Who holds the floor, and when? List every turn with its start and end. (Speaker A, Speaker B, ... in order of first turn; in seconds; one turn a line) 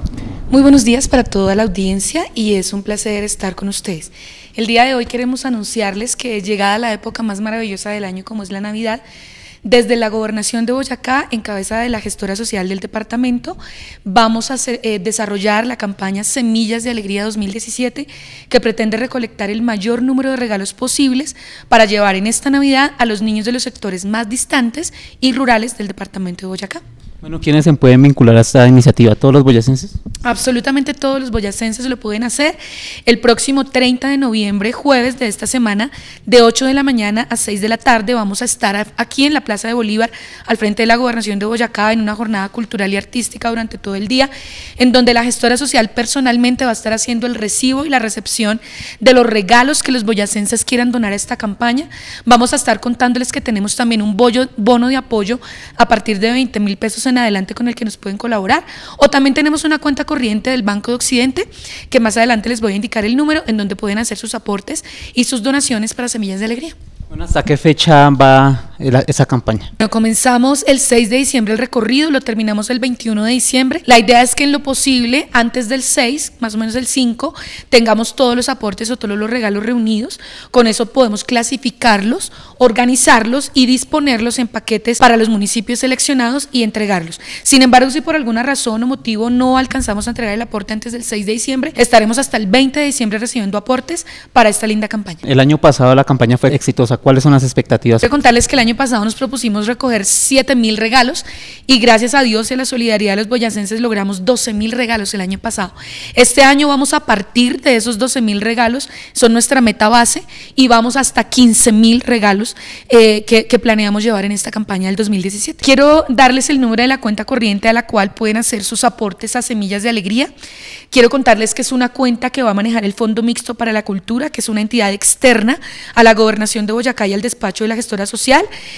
Speaker A: 0.5-9.0
Speaker A: 9.6-26.8
Speaker B: 27.2-29.9
Speaker A: 30.2-66.7
Speaker B: 67.1-69.7
Speaker A: 69.8-95.2
Speaker B: 95.2-98.0
Speaker A: 98.0-120.3
Speaker A: 120.9-128.5